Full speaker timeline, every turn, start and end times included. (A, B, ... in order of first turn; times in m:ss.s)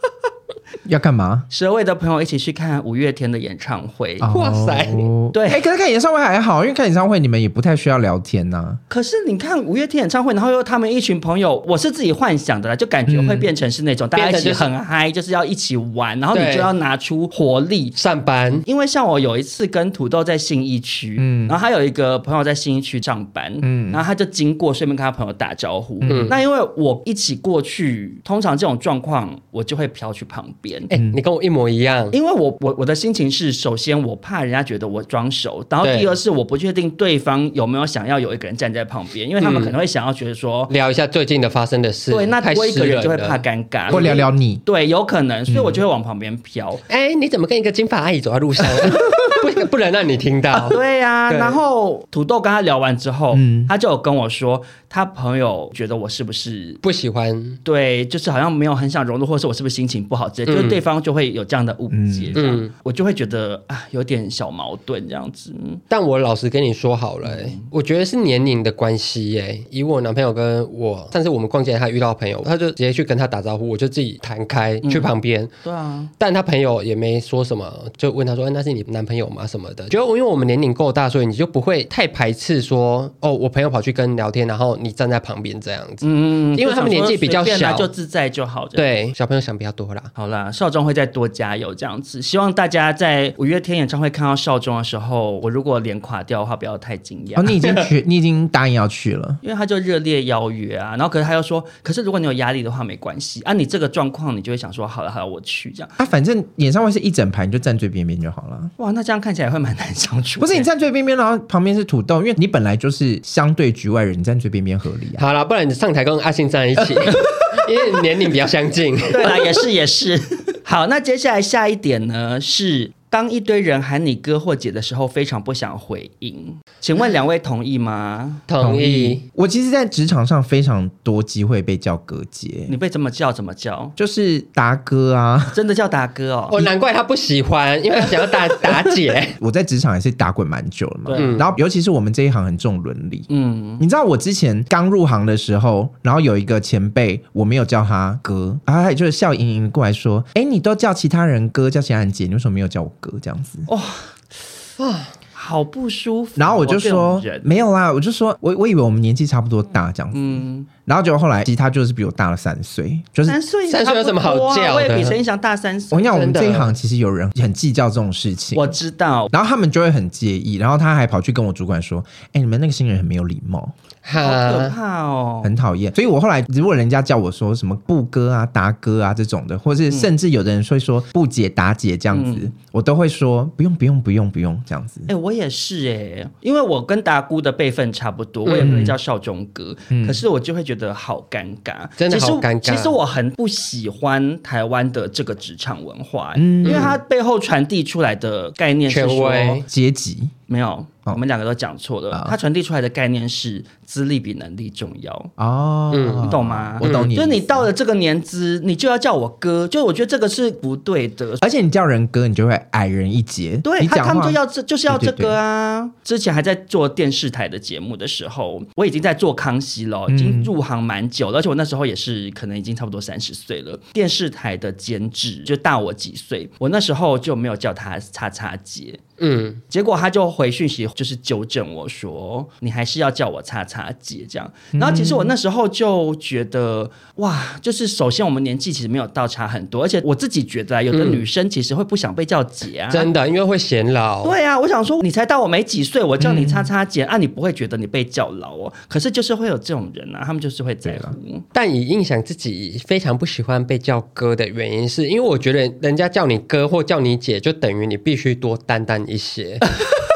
0:00.8-0:01.5 A
0:01.5-0:04.3 B
0:04.2-0:08.8 A
0:04.3-0:05.1 C
0:05.3-0:05.6 B
0:08.9-0:18.0 B
0:13.1-0:13.5 A
0:14.1-0:14.7 C
0:16.3-0:16.7 C
0:18.0-0:18.6 C
0:18.6-0:30.9 B
0:21.2-0:21.6 A
0:23.6-0:24.0 A
0:26.0-0:26.3 A
0:26.1-0:26.4 C
0:30.9-0:32.1 C
0:30.9-0:31.2 A
0:32.1-0:40.7 B
0:35.8-0:36.1 C
0:39.4-0:39.7 C
0:40.7-0:43.4 C
0:42.1-0:46.8 B
0:43.9-0:44.6 A
0:43.9-0:44.2 C
0:45.5-0:45.8 A
0:46.9-0:51.6 C
0:50.6-0:56.8 B
0:53.3-0:53.7 A
0:56.8-0:57.6 C
0:57.6-1:05.8 B
1:00.5-1:00.8 C
1:01.9-1:02.4 A
1:02.3-1:02.7 C
1:05.9-1:15.5 C
1:07.2-1:07.7 B
1:14.8-1:15.1 B
1:15.6-1:16.1 B
1:16.2-1:27.9 C
1:26.0-1:28.8 B
1:28.8-1:30.1 C
1:30.2-1:37.6 B
1:37.4-1:39.4 A
1:39.4-1:45.9 B
1:46.0-1:48.7 A
1:48.8-1:50.7 B
1:50.4-1:55.2 A
1:55.2-1:59.5 C
1:59.1-2:08.4 B
2:08.5-2:09.2 C
2:08.6-2:12.7 A
2:12.7-2:13.9 B
2:14.0-2:15.6 A
2:15.5-2:16.6 B
2:16.5-2:19.4 C
2:19.4-2:23.3 A
2:21.0-2:21.4 B
2:21.1-2:21.5 C
2:23.3-2:23.8 B
2:23.8-2:33.7 A
2:33.7-2:34.1 B
2:34.8-2:35.1 C
2:35.3-2:37.5 B
2:36.4-2:43.4 A
2:40.1-2:40.7 B
2:43.2-2:46.3 B
2:43.7-2:45.2 C
2:45.9-2:48.7 A
2:46.1-2:46.7 C
2:48.5-2:49.3 B
2:49.3-2:53.7 A
2:54.0-2:54.7 C
2:54.2-2:55.5 B
2:55.4-3:05.1 A
3:02.1-3:02.5 B
3:05.1-3:19.6 B
3:08.4-3:08.8 C
3:08.6-3:09.0 A
3:09.9-3:10.2 A
3:12.0-3:13.0 C
3:16.3-3:17.0 A
3:16.6-3:17.0 C
3:18.9-3:19.6 C
3:19.6-3:20.3 A
3:20.5-3:25.3 B
3:25.4-3:27.7 A
3:25.9-3:27.1 C
3:26.2-3:31.4 B
3:31.4-3:35.4 A
3:33.6-3:49.0 B
3:40.1-3:40.5 A
3:49.2-3:49.6 C
3:49.7-4:03.1 B
3:54.7-3:55.3 A
4:00.9-4:01.2 C
4:02.9-4:04.3 C
4:04.2-4:11.4 B
4:06.2-4:06.7 A
4:10.8-4:11.1 A
4:11.5-4:19.7 C